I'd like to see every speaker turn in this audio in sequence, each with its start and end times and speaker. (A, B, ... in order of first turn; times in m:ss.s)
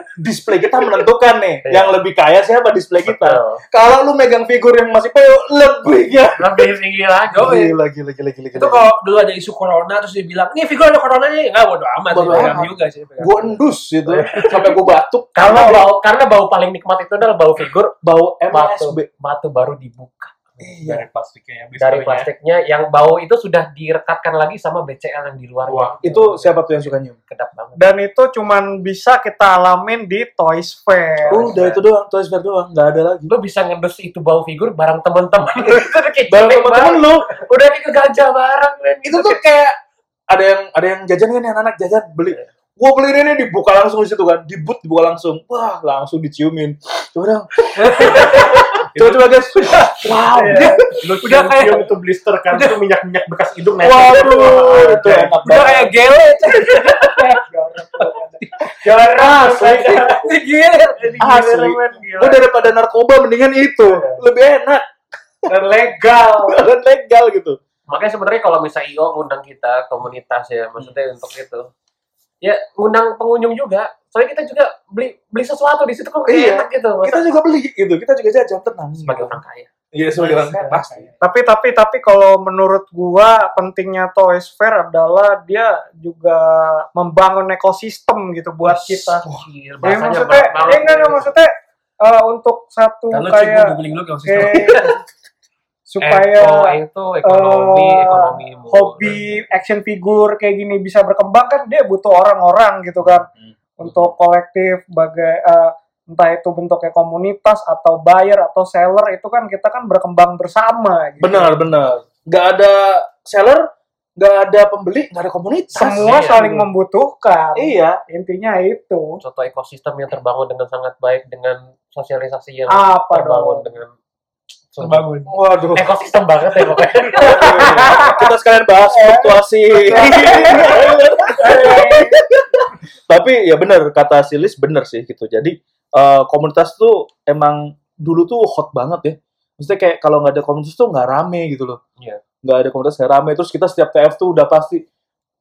0:00.1-0:06.6 A
0:01.6-0:02.0 B
0:03.0-0:03.6 B
0:06.4-0:07.5 B
0:07.3-0:07.8 C
0:07.4-0:08.9 A
0:08.5-0:13.6 C
0:12.1-0:15.8 A
0:14.1-0:14.7 B
0:15.4-0:18.0 B
0:18.0-0:19.1 A
0:18.5-0:20.6 B
0:20.6-0:21.0 A
0:20.8-0:22.3 D
0:21.8-0:26.6 B
0:25.6-0:26.0 D
0:26.0-0:27.2 A
0:27.3-0:27.8 B
0:27.8-0:31.5 E
0:31.2-0:31.8 B
0:31.3-0:33.3 A
0:33.3-0:39.4 B
0:36.3-0:37.3 A
0:39.0-0:39.8 A
0:40.3-0:50.9 A
0:47.8-0:48.7 C
0:49.0-0:49.3 D
0:49.8-0:50.1 C
0:50.3-0:50.8 E
0:50.6-0:51.9 C
0:51.0-0:55.4 D
0:52.5-0:52.8 C
0:53.8-0:55.9 A
0:55.0-0:57.4 C
0:57.2-1:00.2 E
0:58.0-0:58.7 C
0:59.2-0:59.9 A
0:59.4-1:01.3 C
1:01.1-1:02.4 B
1:01.2-1:04.8 A
1:05.5-1:06.6 E
1:06.4-1:07.6 A
1:07.9-1:11.7 B
1:12.4-1:17.2 B
1:16.3-1:19.4 A
1:19.0-1:19.7 B
1:19.9-1:21.0 A
1:20.1-1:21.2 C
1:21.2-1:29.2 E
1:28.7-1:29.2 C
1:29.3-1:31.3 B
1:29.8-1:31.5 E
1:32.0-1:35.0 E
1:33.1-1:35.0 C
1:35.9-1:51.6 E
1:36.0-1:39.2 B
1:51.2-1:53.6 A
1:54.2-1:56.6 A
1:55.8-1:59.2 E
1:55.9-1:56.4 B
1:57.6-1:58.0 A
1:59.2-2:03.9 B
2:02.7-2:03.7 E
2:04.7-2:05.1 B
2:04.8-2:05.3 C
2:05.3-2:05.8 A
2:05.8-2:08.1 B
2:07.2-2:21.8 A
2:07.3-2:08.1 E
2:08.9-2:12.2 E
2:22.4-2:24.8 A